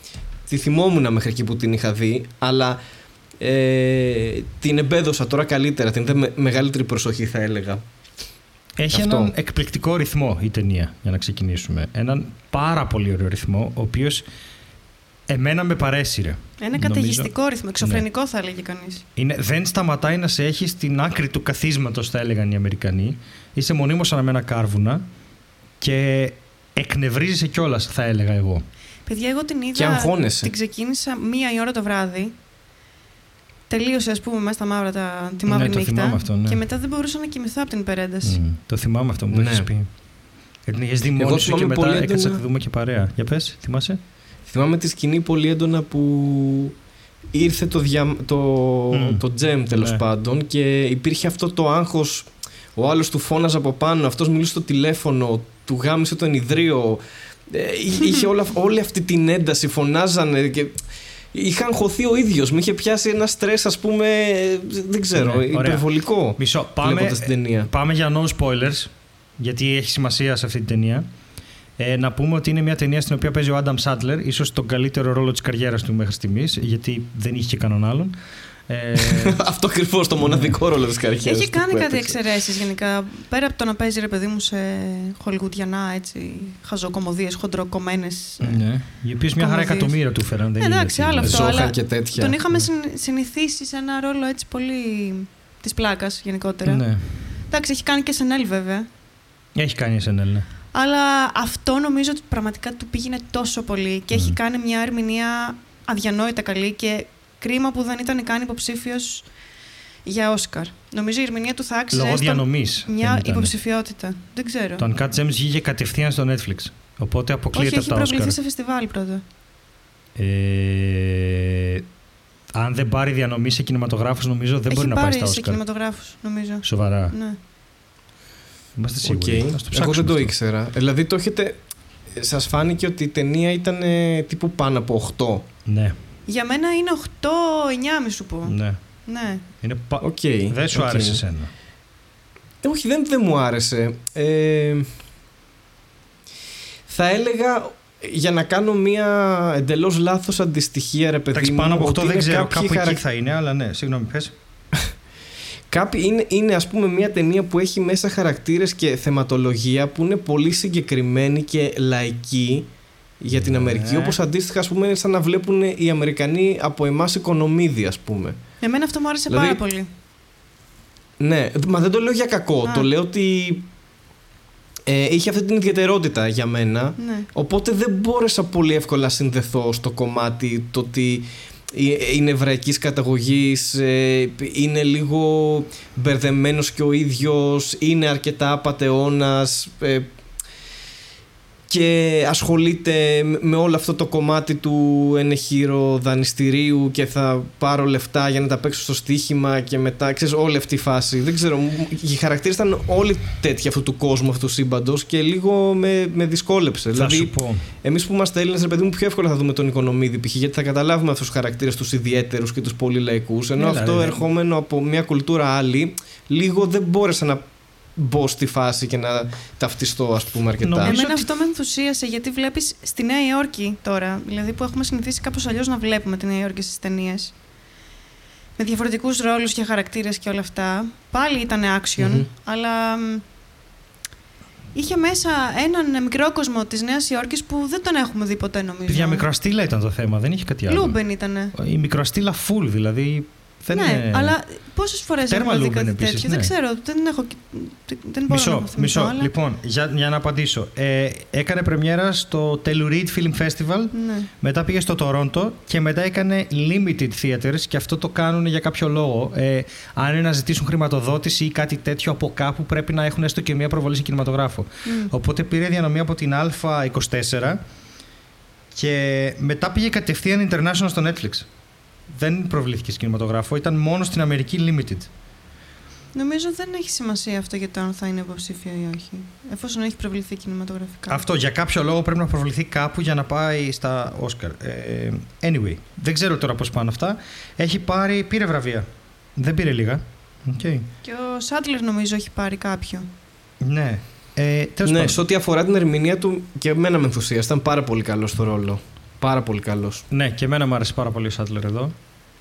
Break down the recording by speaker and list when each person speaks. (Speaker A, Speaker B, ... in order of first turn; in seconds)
Speaker A: 0.5-2.8, 3.4-7.8, 8.9-9.3, 29.7-30.5, 39.3-39.7, 41.2-42.4, 44.5-46.7, 47.3-67.7, 79.0-82.2, 91.2-92.4, 129.0-131.6, 132.1-135.4, 140.0-141.2, 142.6-144.9, 146.9-153.0, 155.7-162.7, 163.2-168.4, 169.3-169.6, 171.2-173.7, 174.9-190.1, 191.7-220.9, 232.0-232.3, 294.8-300.0
Speaker B: 8.8-14.2, 15.3-18.0, 19.1-25.0, 25.8-28.6, 35.5-36.6, 38.2-39.9, 40.6-44.0, 48.9-50.0, 65.1-71.0, 71.8-78.1, 78.7-79.4, 80.2-80.5, 88.4-91.5, 96.6-97.0, 99.5-100.5, 104.1-104.4, 111.9-113.5, 114.8-118.4, 120.1-121.8, 122.5-125.6, 126.6-127.2, 128.8-130.3, 135.7-136.0, 138.4-138.8, 139.6-141.5, 151.3-154.3, 163.3-164.2, 206.9-207.7, 213.6-214.2, 220.6-221.3, 238.9-241.0, 241.5-244.4, 245.3-246.5, 248.3-267.6, 268.7-271.4, 272.1-275.1, 281.1-290.9, 293.6-295.2, 300.1-301.9
Speaker C: 16.6-19.0, 29.1-32.3, 33.7-38.4, 81.2-88.6, 89.3-90.0, 90.6-96.9, 97.5-98.9, 100.7-109.3, 110.0-114.8, 117.5-119.2, 124.7-127.4, 136.3-139.4, 168.6-169.9, 177.0-177.3, 220.8-227.3, 228.6-233.2, 234.7-239.2, 240.7-241.5, 243.7-249.3, 253.9-254.3, 264.8-265.1, 276.1-281.2, 291.0-293.1